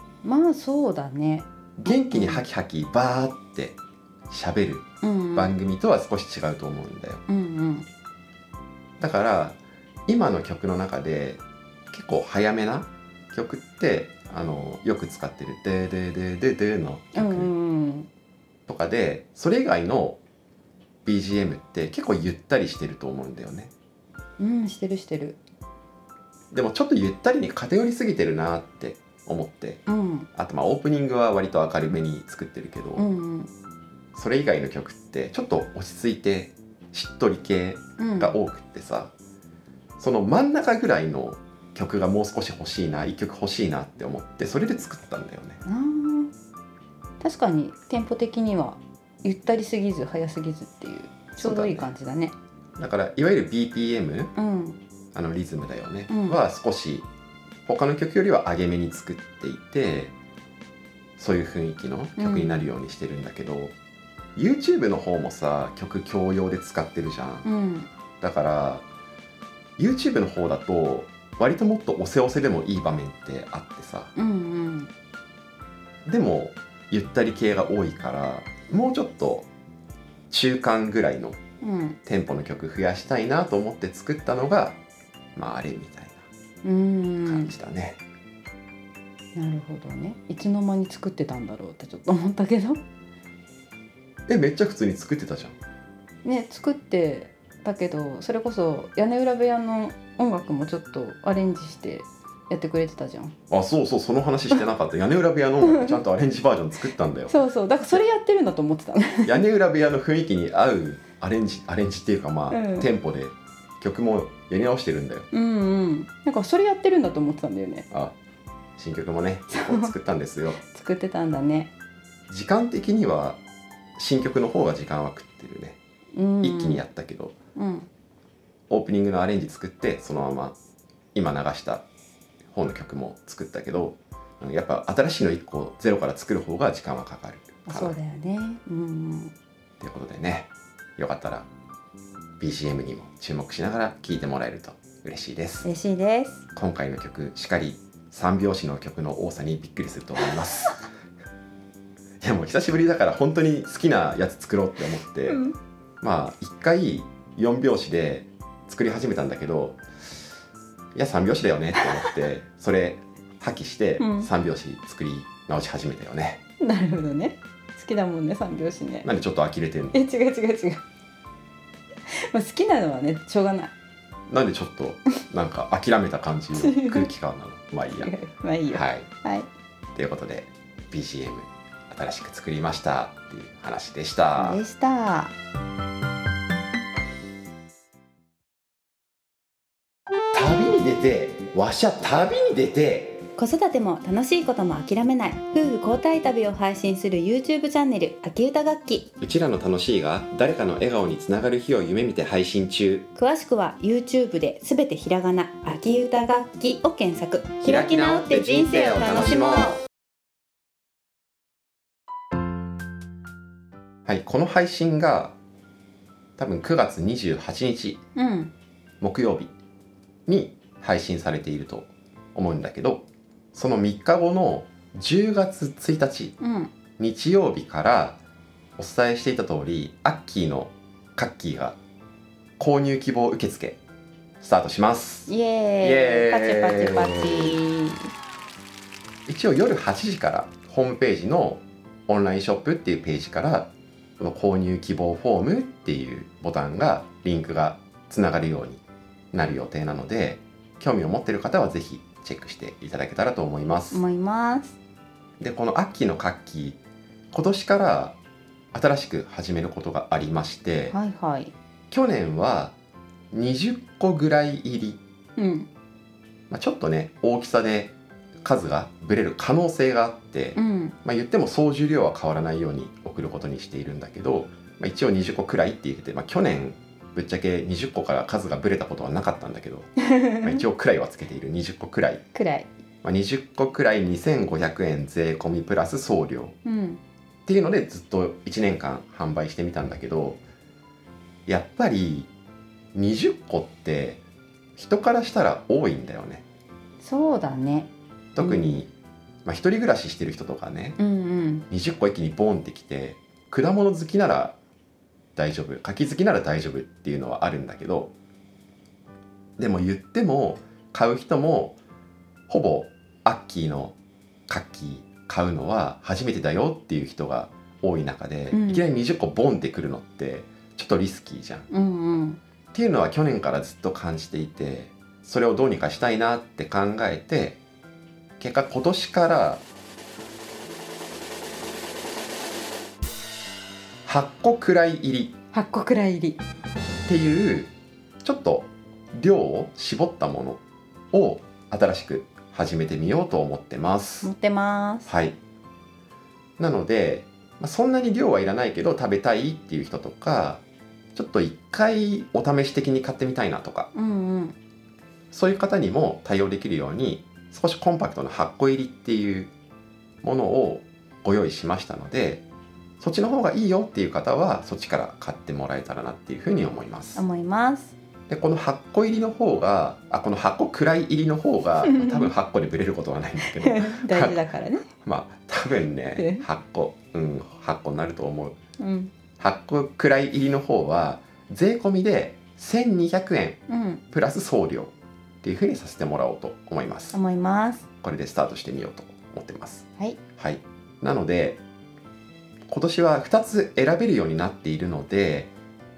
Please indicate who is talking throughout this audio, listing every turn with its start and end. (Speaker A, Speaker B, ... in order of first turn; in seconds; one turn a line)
Speaker A: 0.2-2.4
Speaker B: 1.8-3.8
Speaker B: 4.3-7.2
Speaker A: 5.0-5.5
Speaker A: 7.3-7.8
Speaker B: 9.0-17.5
Speaker A: 17.1-18.1
Speaker B: 18.7-20.2
Speaker B: 21.0-23.7
Speaker A: 24.4-25.4
Speaker B: 26.5-29.8
Speaker A: 29.9-30.3
Speaker B: 30.3-33.0
Speaker A: 33.0-33.5
Speaker B: 34.1-39.1
Speaker A: 38.0-38.4
Speaker B: 40.0-45.6
Speaker A: 45.6-46.3
Speaker A: 47.2-52.3
Speaker B: 51.4-51.9
Speaker B: 52.8-54.3
Speaker A: 54.4-54.8
Speaker B: 55.1-57.1
Speaker A: 56.1-56.4
Speaker B: 57.6-60.1
Speaker B: 61.2-63.7
Speaker A: 62.2-62.7
Speaker B: 64.3-67.5
Speaker A: 67.4-67.9
Speaker B: 68.2-68.8
Speaker B: 69.8-74.1
Speaker A: 74.2-74.9
Speaker B: 76.0-79.5
Speaker B: 80.3-81.4
Speaker A: 81.6-82.0
Speaker B: 82.0-84.8
Speaker B: 85.3-86.2
Speaker A: 86.6-87.5
Speaker B: 87.2-88.0
Speaker A: 89.3-92.8
Speaker B: 94.3-95.5
Speaker A: 96.2-103.3
Speaker B: 103.5-107.3
Speaker A: 105.6-106.0
Speaker A: 107.3-109.4
Speaker B: 109.2-115.3
Speaker A: 112.5-112.9
Speaker A: 115.3-117.9
Speaker B: 118.8-120.6
Speaker A: 119.5-119.9
Speaker A: 120.6-121.7
Speaker B: 122.3-123.4
Speaker B: 124.0-125.8
Speaker A: 126.2-126.8
Speaker B: 126.4-127.3
Speaker A: 127.5-127.9
Speaker B: 128.7-130.6
Speaker B: 131.1-131.8
Speaker B: 132.5-137.9
Speaker A: 137.7-139.3
Speaker B: 139.8-141.5
Speaker B: 142.4-145.7
Speaker A: 145.6-146.4
Speaker B: 146.5-150.8
Speaker B: 152.2-155.4
Speaker A: 155.3-155.5
Speaker B: 156.0-159.8
Speaker B: 160.9-166.4
Speaker A: 164.0-164.3
Speaker A: 166.6-169.1
Speaker B: 169.0-170.0
Speaker A: 169.9-170.8
Speaker A: 172.1-173.7
Speaker B: 174.3-178.1
Speaker A: 176.5-177.1
Speaker A: 177.9-179.5
Speaker B: 178.7-179.1
Speaker B: 179.9-184.6
Speaker A: 184.4-185.3
Speaker B: 190.3-193.2
Speaker A: 193.3-199.1
Speaker B: 199.2-203.1
Speaker A: 203.1-209.8
Speaker B: 207.6-209.8
Speaker B: 214.1-215.3
Speaker B: 216.4-218.0
Speaker A: 218.2-218.5
Speaker B: 219.0-219.5
Speaker B: 220.3-226.3
Speaker A: 226.4-226.7
Speaker B: 227.0-228.2
Speaker B: 228.8-231.8
Speaker B: 232.6-233.8
Speaker B: 234.4-237.6
Speaker A: 235.3-238.1
Speaker B: 239.3-248.8
Speaker B: 249.3-254.0
Speaker A: 253.9-254.8
Speaker B: 255.4-256.8
Speaker B: 257.3-258.2
Speaker B: 258.7-260.9
Speaker A: 260.9-261.5
Speaker B: 261.9-262.7
Speaker B: 263.3-265.0
Speaker A: 265.4-265.7
Speaker B: 266.5-279.9
Speaker A: 270.5-270.9
Speaker A: 280.0-280.6
Speaker B: 280.4-282.2
Speaker A: 282.3-282.7
Speaker B: 283.0-286.5
Speaker A: 286.6-287.0
Speaker B: 287.4-290.4
Speaker B: 291.5-292.3
Speaker B: 292.9-294.2
Speaker B: 294.8-296.4
Speaker A: 297.0-298.8
Speaker B: 298.3-298.9
Speaker B: 299.4-301.0
Speaker A: 301.0-301.6
Speaker B: 301.7-304.6
Speaker B: 305.4-308.1
Speaker B: 309.6-311.8
Speaker B: 312.5-313.9
Speaker B: 314.5-321.7
Speaker A: 318.5-318.9
Speaker A: 321.7-322.4
Speaker B: 322.7-327.6
Speaker B: 328.4-329.6
Speaker B: 334.1-335.4
Speaker A: 335.5-336.4
Speaker B: 337.1-337.7
Speaker B: 338.2-340.6
Speaker B: 341.1-344.3
Speaker A: 344.2-345.1
Speaker B: 345.1-345.4
Speaker B: 346.6-350.6
Speaker B: 351.1-353.9
Speaker A: 353.9-354.6
Speaker B: 355.3-359.5
Speaker B: 360.2-362.4
Speaker B: 363.0-367.2
Speaker A: 367.1-367.9
Speaker B: 368.3-378.6
Speaker A: 371.8-372.3
Speaker A: 373.4-374.9
Speaker A: 376.2-376.4
Speaker A: 378.8-379.1
Speaker B: 379.4-383.6
Speaker A: 383.7-384.0
Speaker B: 384.1-387.2
Speaker A: 387.1-387.9
Speaker B: 388.0-391.6
Speaker B: 392.7-395.5